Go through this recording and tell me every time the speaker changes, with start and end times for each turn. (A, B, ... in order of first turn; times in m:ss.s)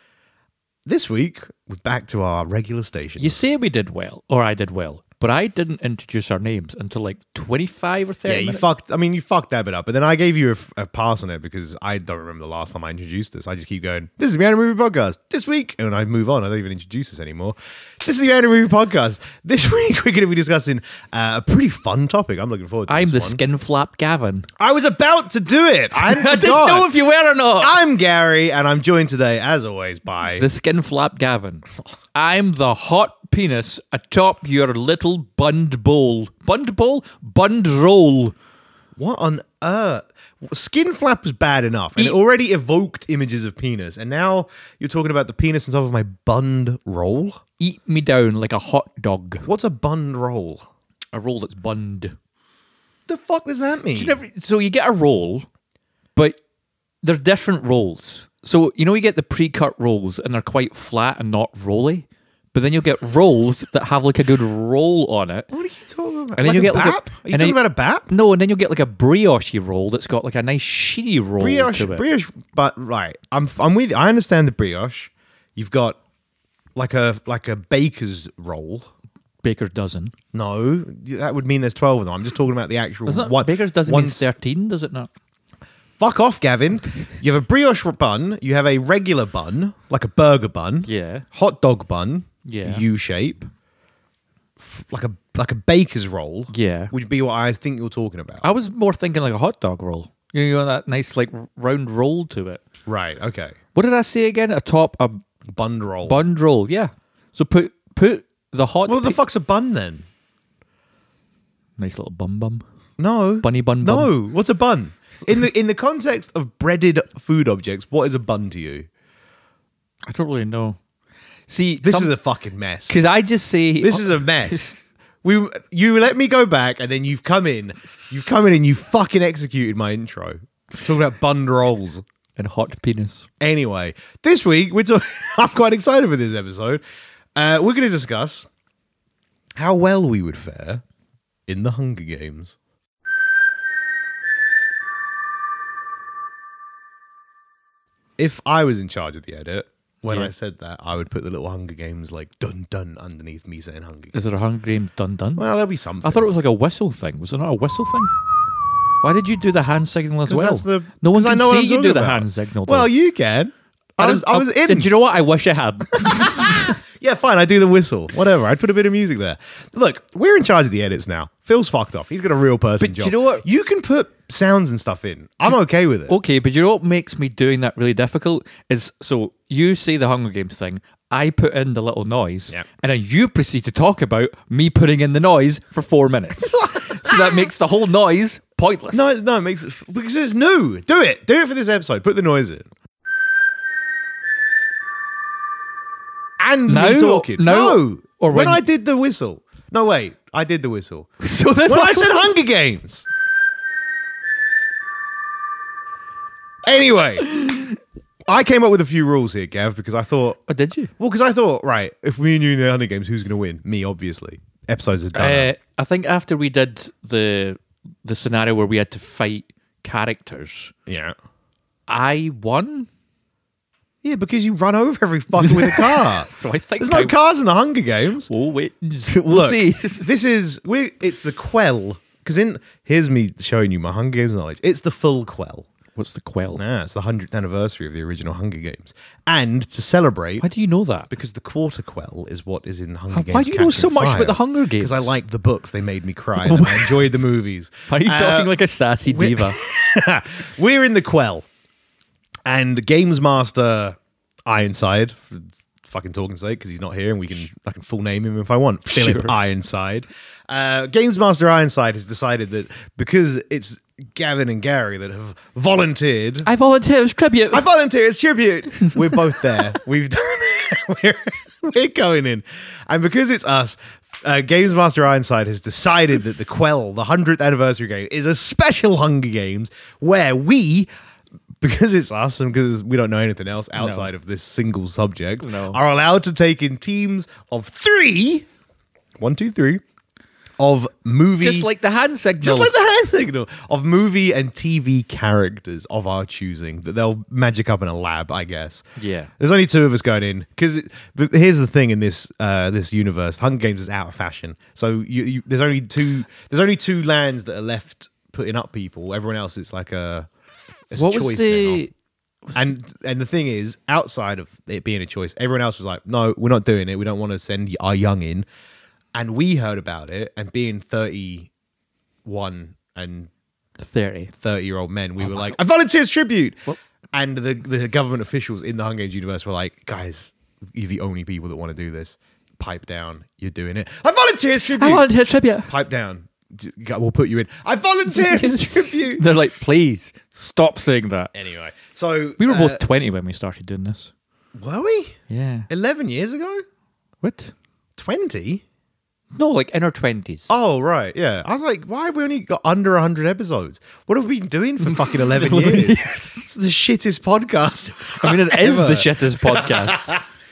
0:00.9-0:03.4 A
0:03.2-0:08.6 B
0:08.3-0:23.4 A
0:22.9-0:24.5 B
0:24.6-0:26.9 A
0:25.9-0:27.8 B
0:27.6-0:30.5 A
0:30.4-0:38.4 B
0:39.0-0:47.4 A
0:47.6-0:49.5 B
0:49.4-0:50.7 A
0:51.1-0:52.2 B
0:53.1-0:54.2 A
0:53.9-0:55.5 B
0:57.0-1:05.5 B
1:05.5-1:08.1 A
1:06.4-1:07.6 B
1:08.1-1:12.0 B
1:11.4-1:16.0 A
1:16.8-1:18.9 A
1:19.4-1:20.1 B
1:20.3-1:24.3 A
1:23.1-1:25.1 B
1:26.0-1:33.5 A
1:30.9-1:31.3 B
1:32.4-1:32.8 B
1:34.6-1:38.5 A
1:36.5-1:36.9 B
1:38.4-1:42.6 B
1:42.9-1:43.6 A
1:43.8-1:45.2 B
1:45.5-1:46.2 A
1:46.0-1:49.2 B
1:48.9-1:50.1 A
1:51.8-1:52.6 B
1:53.0-1:58.9 A
1:53.4-1:54.1 B
2:00.1-2:00.8 B
2:01.5-2:02.1 B
2:01.8-2:03.0 A
2:02.9-2:04.8 B
2:03.8-2:12.0 A
2:12.4-2:13.3 B
2:13.4-2:16.8 A
2:17.4-2:18.5 A
2:19.6-2:20.8 A
2:21.5-2:22.6 A
2:28.2-2:34.2 A
2:34.1-2:35.5 B
2:35.4-2:36.3 A
2:36.0-2:38.1 B
2:39.0-2:42.9 B
2:40.3-2:44.9 A
2:44.0-2:46.8 B
2:46.0-2:56.2 A
2:52.8-2:53.5 B
2:56.1-3:09.1 B
3:06.7-3:07.2 A
3:08.9-3:12.7 A
3:16.4-3:21.1 A
3:16.7-3:18.6 B
3:21.2-3:22.3 B
3:21.6-3:23.1 A
3:26.7-3:27.6 A
3:28.3-3:30.4 A
3:30.5-3:30.9 B
3:31.0-3:35.5 A
3:35.1-3:40.7 B
3:40.9-3:41.2 A
3:41.9-3:42.9 B
3:44.0-3:48.3 A
3:45.4-3:47.2 B
3:48.3-3:50.1 B
3:49.3-3:55.7 A
3:56.0-3:56.6 B
3:56.6-4:00.5 A
4:00.4-4:01.1 B
4:01.1-4:08.5 A
4:03.1-4:05.2 B
4:06.4-4:07.2 B
4:07.9-4:09.6 B
4:09.1-4:11.5 A
4:12.5-4:26.5 A
4:18.9-4:19.4 B
4:26.4-4:27.6 B
4:27.5-4:40.9 A
4:41.6-4:48.5 A
4:43.8-4:44.1 B
4:45.4-4:45.8 B
4:49.2-4:49.8 A
4:50.6-4:51.7 A
4:51.4-4:52.8 B
4:52.4-4:58.8 A
4:59.0-4:59.3 B
4:59.4-5:10.3 A
5:10.9-5:11.8 A
5:11.0-5:11.9 B
5:12.5-5:18.5 A
5:19.1-5:21.5 A
5:22.2-5:23.3 A
5:23.8-5:24.3 B
5:24.4-5:26.6 A
5:25.2-5:25.6 B
5:27.1-5:35.1 A
5:34.7-5:35.7 B
5:35.7-5:39.2 A
5:38.1-5:41.3 B
5:41.3-5:42.8 A
5:42.4-5:44.1 B
5:44.6-5:45.2 A
5:45.3-5:45.7 B
5:45.7-5:46.6 A
5:47.2-5:47.5 B
5:48.0-5:48.6 A
5:49.4-5:50.5 B
5:50.5-6:00.2 A
5:54.8-5:56.5 B
5:58.2-6:00.0 B